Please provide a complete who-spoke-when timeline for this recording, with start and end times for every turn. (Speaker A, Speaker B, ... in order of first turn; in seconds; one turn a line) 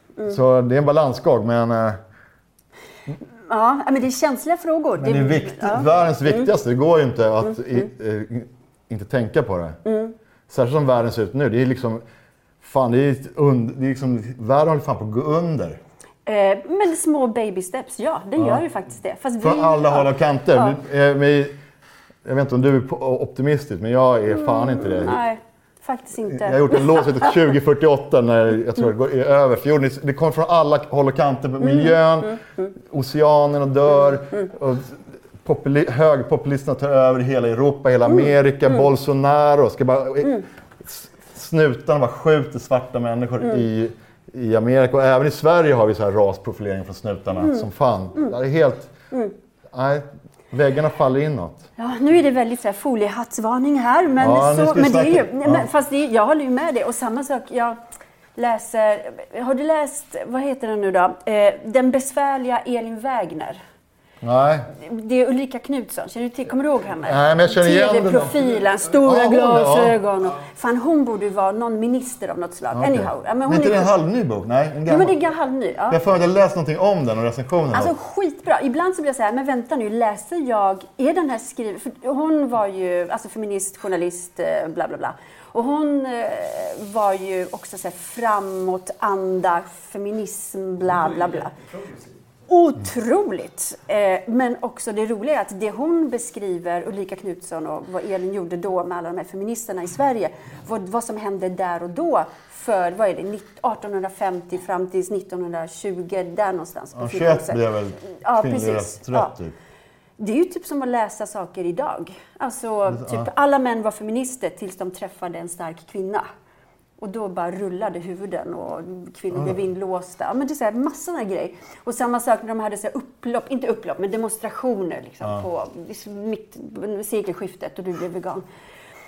Speaker A: 0.3-2.0
Speaker B: 3.5-5.9
Speaker A: 5.0-9.8
Speaker B: 9.8-10.1
Speaker A: 10.5-12.0
Speaker A: 12.6-15.8
Speaker B: 16.3-20.8
Speaker A: 19.4-21.5
Speaker A: 22.2-25.2
Speaker B: 24.4-27.3
Speaker A: 26.3-48.9
Speaker A: 49.7-51.6
Speaker B: 51.8-57.8
Speaker A: 54.2-55.7
Speaker B: 58.4-63.6
Speaker A: 64.2-64.7
Speaker B: 64.8-74.0
Speaker A: 67.0-68.4
Speaker A: 69.0-70.0
Speaker A: 72.7-75.2
Speaker B: 74.9-76.0
Speaker A: 75.9-77.9
Speaker B: 77.7-91.5
Speaker B: 92.5-109.3
Speaker A: 107.0-109.6
Speaker B: 110.2-116.3
Speaker A: 112.9-113.3
Speaker B: 117.0-128.4